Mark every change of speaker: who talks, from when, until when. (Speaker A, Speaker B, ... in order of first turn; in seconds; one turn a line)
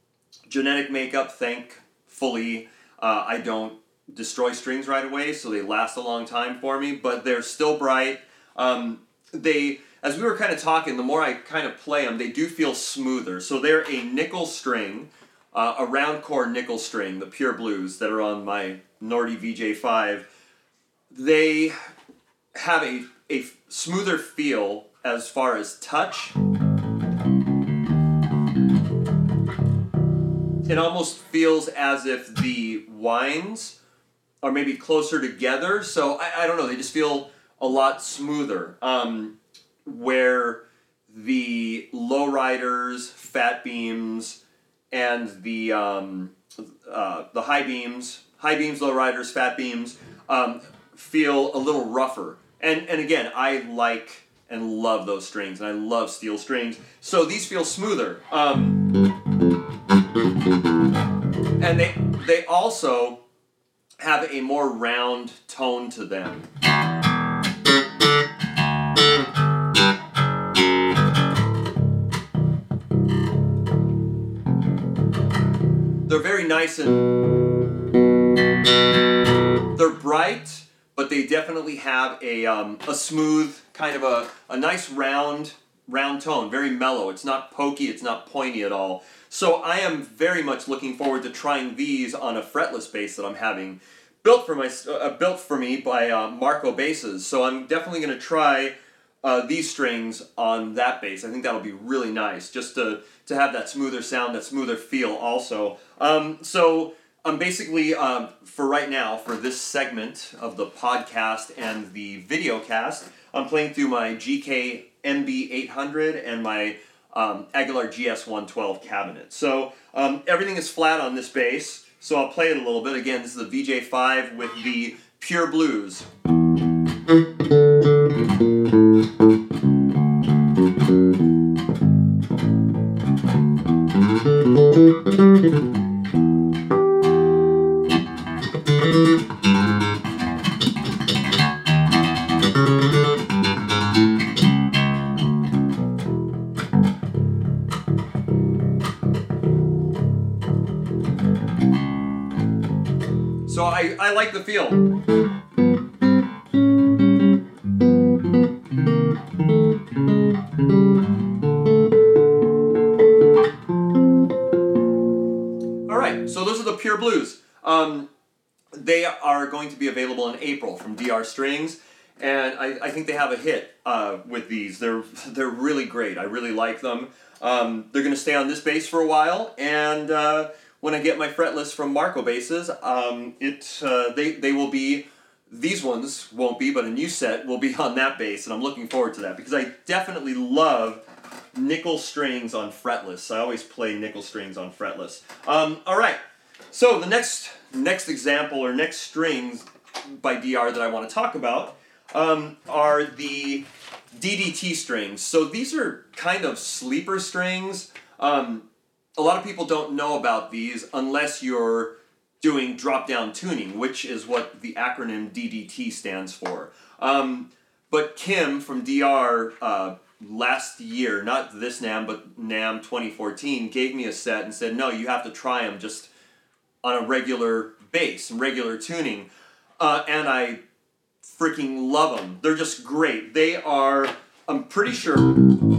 Speaker A: 0.5-20.3
Speaker A: 21.1-21.8
Speaker A: 22.6-26.4
Speaker A: 30.6-33.8
Speaker A: 34.4-39.3
Speaker A: 39.9-44.4
Speaker A: 44.9-58.8
Speaker A: 61.6-63.2
Speaker A: 64.0-66.5
Speaker A: 76.1-77.0
Speaker A: 79.8-126.1
Speaker A: 153.5-154.8
Speaker A: 165.9-168.1
Speaker A: 168.7-191.0
Speaker A: 191.5-196.2
Speaker A: 196.7-208.7
Speaker A: 209.2-226.1
Speaker A: 226.8-229.3
Speaker A: 229.8-230.6
Speaker A: 231.2-235.4